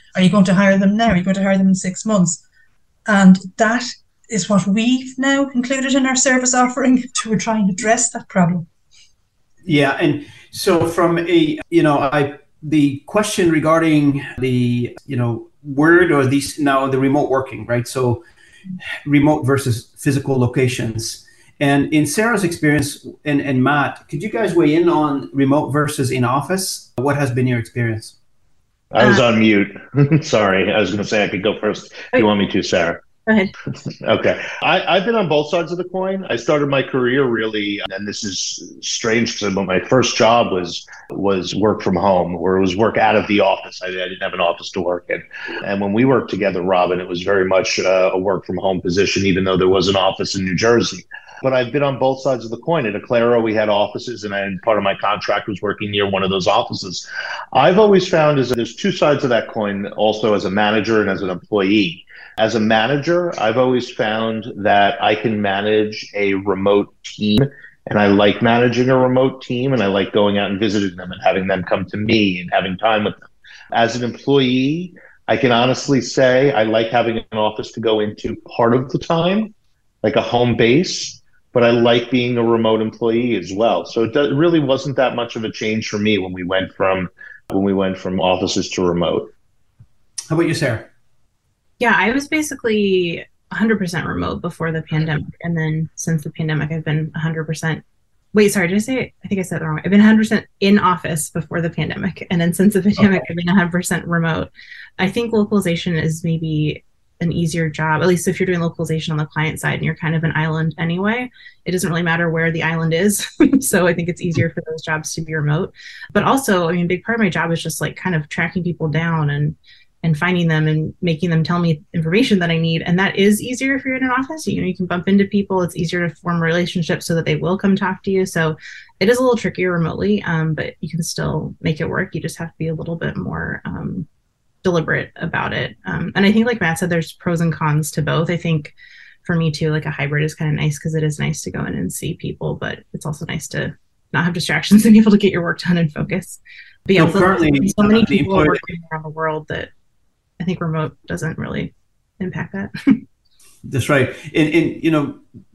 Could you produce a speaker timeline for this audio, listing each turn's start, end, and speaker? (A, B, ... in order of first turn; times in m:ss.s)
0:00.2-0:02.4 A
0:03.1-0:08.7 A
0:09.6-0:18.2 B
0:19.0-0:28.2 B
0:28.9-0:33.0 C
0:33.3-0:33.5 D
0:34.0-1:29.3 C
1:30.3-1:30.9 B
1:31.8-2:14.1 D
2:14.6-2:29.7 D
2:27.0-2:28.6 B
2:30.4-2:33.0 D
2:33.7-2:35.2 B